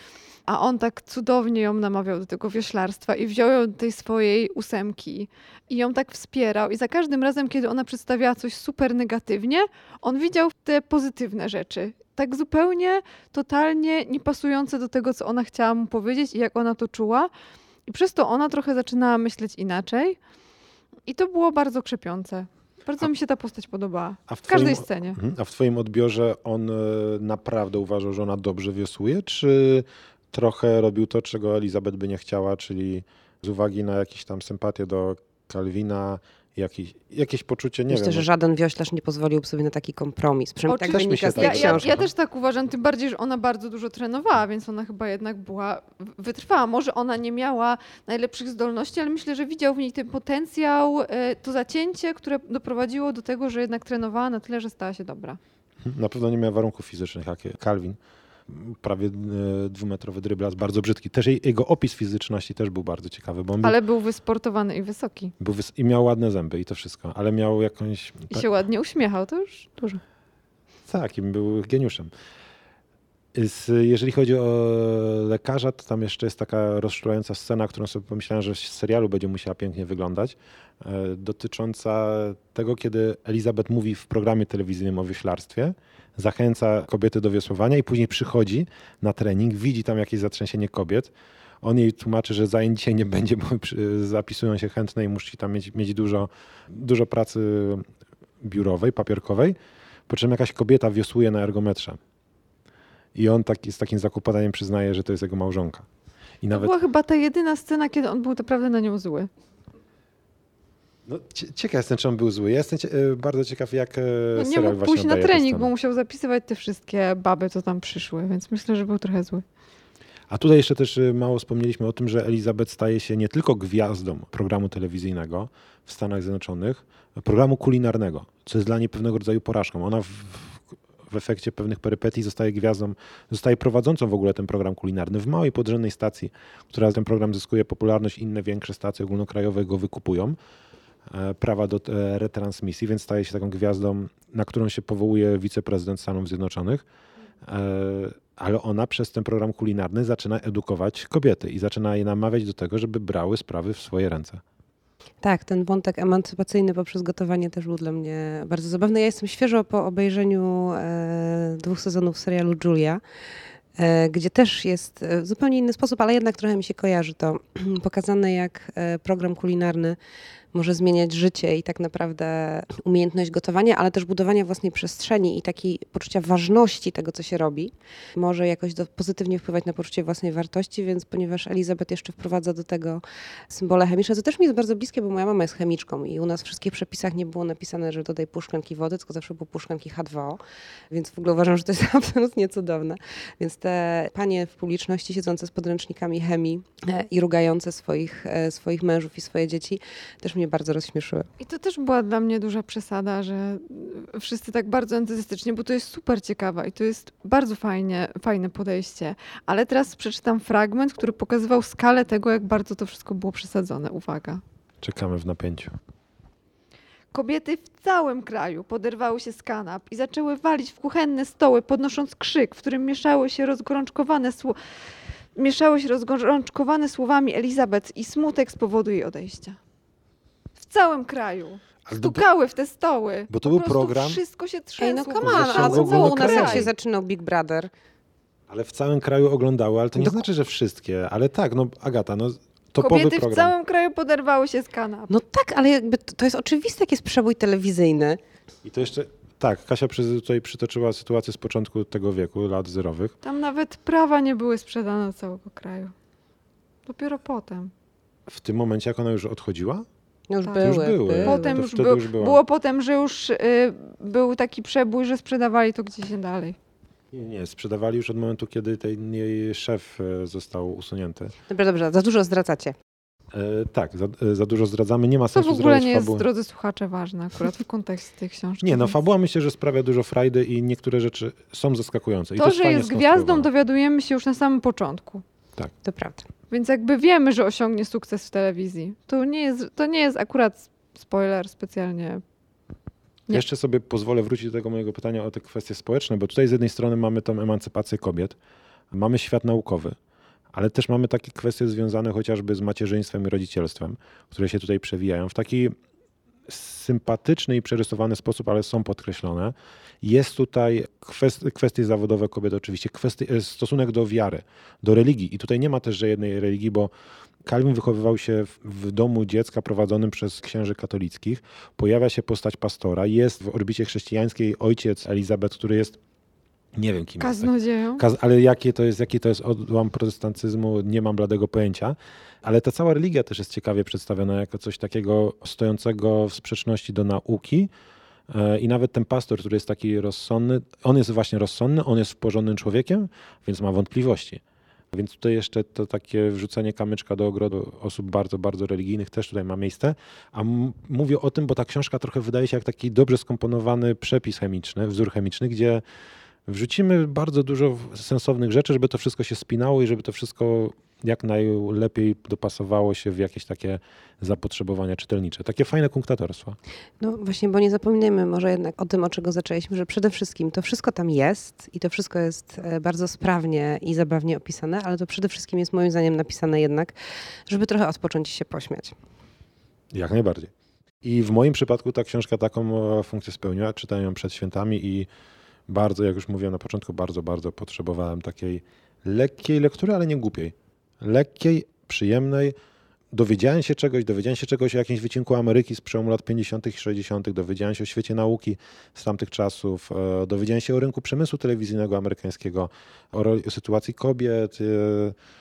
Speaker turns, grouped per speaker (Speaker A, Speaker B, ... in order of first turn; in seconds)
Speaker A: 0.5-17.3, 17.9-20.2, 21.1-25.2, 40.7-55.4, 63.6-65.3, 68.3-70.0, 106.5-109.3, 114.3-119.4, 201.4-214.4, 217.1-224.6, 225.3-229.6, 230.6-236.7, 242.8-245.1, 253.2-255.9, 256.9-257.7, 260.4-266.6, 275.3-278.9, 282.4-285.2, 286.5-292.2, 327.2-328.0
Speaker B: 24.3-38.2, 40.9-42.1, 55.8-63.8, 65.4-68.5, 70.9-72.1, 73.3-91.1, 91.6-97.8, 98.4-99.5, 100.1-102.0, 103.1-105.8, 106.4-106.8, 111.0-115.7, 120.3-140.4, 141.1-146.8, 147.4-154.4, 214.8-215.7, 231.8-232.2, 233.3-234.2, 235.2-236.7, 238.5-243.5, 248.6-253.1, 258.3-259.9, 260.6-262.4, 267.1-271.3, 273.3-276.2, 278.6-283.5, 293.3-298.4, 298.9-299.9, 300.5-305.7, 306.5-316.9, 317.4-326.0, 326.8-337.7, 338.3-344.4, 344.9-355.8, 356.5-366.6, 379.9-380.5, 381.0-385.1, 385.7-392.5, 393.1-405.1
Speaker C: 37.9-41.9, 155.2-163.0, 163.8-170.0, 170.5-190.4, 190.9-201.3, 234.8-237.7, 240.0-240.2, 245.1-248.2, 260.3-261.4, 271.5-272.8, 285.8-286.2, 367.0-376.9, 377.5-378.9